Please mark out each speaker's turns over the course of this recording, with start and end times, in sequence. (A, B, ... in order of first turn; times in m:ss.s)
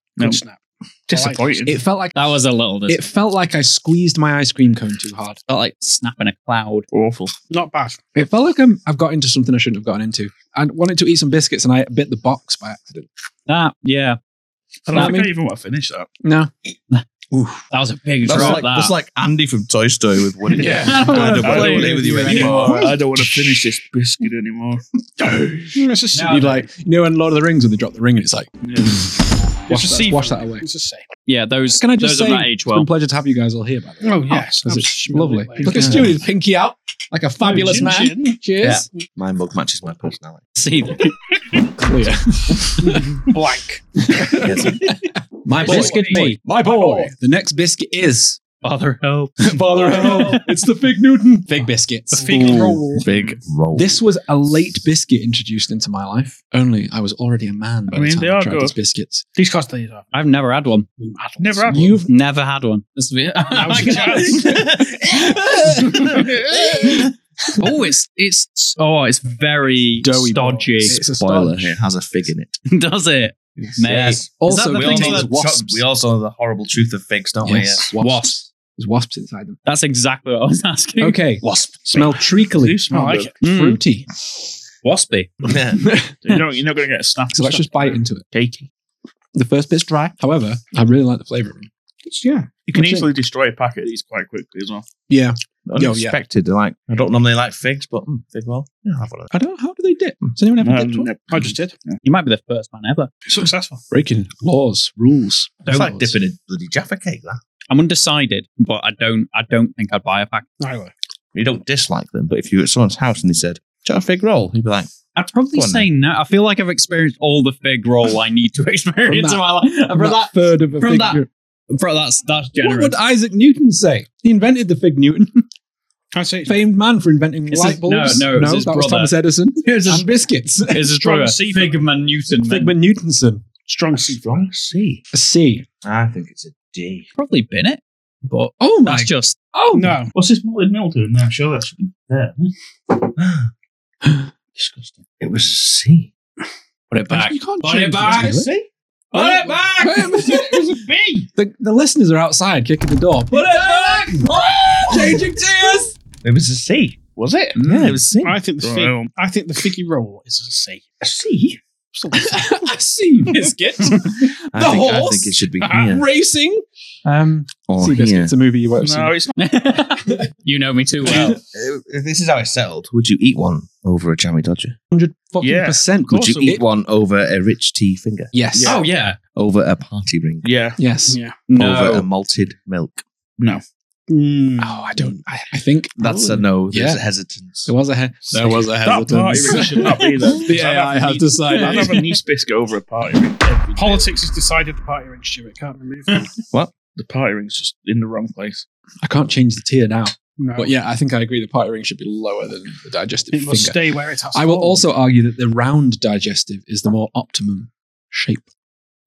0:00.2-0:00.4 A
0:00.2-0:01.7 B
0:01.1-0:01.8 A
0:01.6-0:02.2 C
0:02.1-0:03.0 D
0:02.9-0:05.4 C
0:05.5-0:06.8 D
0:06.9-0:07.3 A
0:07.5-0:08.0 B
0:08.1-0:13.1 C
0:13.5-0:14.2 D
0:14.9-0:16.1 A
0:14.9-0:15.2 D
0:14.9-0:15.3 C
0:16.2-0:16.5 C
0:17.3-0:17.6 C
0:17.7-0:18.9 D
0:18.2-0:23.0 E
0:20.5-0:23.6 C
0:20.6-0:22.7 D
0:21.1-0:24.8 A
0:25.2-0:29.1 C
0:25.7-0:26.5 B
0:26.1-0:26.5 D
0:28.6-0:29.0 A
0:29.7-0:30.6 C
0:29.7-0:31.0 B
0:31.3-0:32.9 D
0:31.8-0:38.9 C
0:34.0-0:36.2 B
0:35.6-0:36.2 A
0:37.4-0:38.4 B
0:38.6-0:40.4 E
0:40.6-0:41.1 D
0:41.7-0:43.2 C
0:42.8-0:44.1 B
0:44.0-0:48.4 C
0:44.3-0:45.0 E
0:45.6-0:46.4 D
0:45.6-0:47.1 B
0:48.6-0:50.4 D
0:49.4-0:52.8 C
0:52.1-0:52.8 D
0:52.2-0:53.1 B
0:52.3-0:53.9 E
0:53.7-0:59.2 C
0:57.9-0:58.8 A
0:59.4-1:00.1 B
1:00.1-1:00.9 D
1:01.0-1:01.9 B
1:01.4-1:02.0 A
1:01.7-1:02.1 C
1:02.0-1:04.7 D
1:03.5-1:04.7 B
1:04.3-1:07.1 E
1:05.4-1:06.2 C
1:06.0-1:06.6 A
1:07.6-1:11.0 D
1:10.0-1:11.7 C
1:10.9-1:12.6 E
1:12.7-1:15.4 D
1:13.6-1:17.9 E
1:14.4-1:15.8 C
1:17.4-1:19.6 C
1:18.0-1:18.4 D
1:19.6-1:21.2 D
1:21.0-1:24.1 C
1:22.6-1:23.3 A
1:22.9-1:23.4 B
1:23.4-1:23.8 D
1:24.8-1:25.3 D
1:25.4-1:25.9 E
1:25.7-1:26.4 C
1:26.2-1:28.7 A
1:27.3-1:28.2 C
1:29.3-1:31.7 C
1:32.2-1:32.5 B
1:32.5-1:33.1 C
1:32.7-1:34.8 A
1:35.1-1:36.2 C
1:35.6-1:39.3 E
1:39.3-1:41.1 C
1:40.6-1:42.0 A
1:41.3-1:41.7 B
1:42.0-1:43.1 D
1:43.3-1:43.8 B
1:43.9-1:46.1 C
1:45.7-1:46.0 D
1:45.7-1:47.4 E
1:47.7-1:50.5 D
1:50.6-1:50.9 B
1:51.3-1:54.9 E
1:55.1-2:03.0 D
1:55.5-1:55.9 E
1:59.0-2:01.3 C
2:02.6-2:05.4 C
2:06.1-2:06.6 B
2:06.4-2:11.0 C
2:07.5-2:09.1 D
2:09.6-2:10.0 D
2:10.7-2:12.7 D
2:11.0-2:11.8 B
2:12.4-2:13.5 C
2:13.6-2:14.5 B
2:14.1-2:15.0 E
2:15.1-2:15.6 C
2:15.8-2:17.0 E
2:17.2-2:19.4 D
2:18.6-2:20.0 C
2:19.7-2:20.1 B
2:20.1-2:22.5 A
2:23.2-2:23.5 E
2:24.6-2:25.0 A
2:25.2-2:26.1 E
2:26.9-2:28.5 D
2:26.9-2:28.5 C
2:28.1-2:28.6 A
2:29.1-2:30.0 D
2:29.1-2:34.3 C
2:30.2-2:31.3 A
2:34.2-2:35.2 E
2:34.8-2:35.9 C
2:36.2-2:37.0 E
2:37.1-2:37.6 A
2:37.6-2:38.0 C
2:37.6-2:38.4 E
2:38.2-2:41.0 B
2:38.6-2:39.1 A
2:41.0-2:41.6 E
2:41.9-2:42.7 B
2:42.1-2:49.1 C
2:44.5-2:46.0 E
2:45.6-2:45.9 B
2:47.7-2:48.3 E
2:48.8-2:49.4 A
2:49.4-2:51.4 D
2:51.1-2:51.3 C
2:51.1-2:54.8 E
2:54.9-2:56.6 C
2:55.4-2:56.6 A
2:56.1-2:58.3 E
2:58.3-2:58.7 C
2:58.5-2:58.8 A
2:58.6-2:59.2 D
2:59.3-3:00.5 E
3:00.4-3:00.8 A
3:00.8-3:01.2 C
3:01.1-3:01.5 B
3:01.5-3:02.1 D
3:01.5-3:03.0 E
3:04.1-3:05.0 B
3:04.6-3:07.0 C
3:06.0-3:07.7 E
3:07.6-3:12.0 C
3:08.7-3:14.1 A
3:13.8-3:16.3 B
3:16.9-3:18.6 A
3:19.0-3:28.5 C
3:20.4-3:20.7 B
3:23.3-3:24.8 B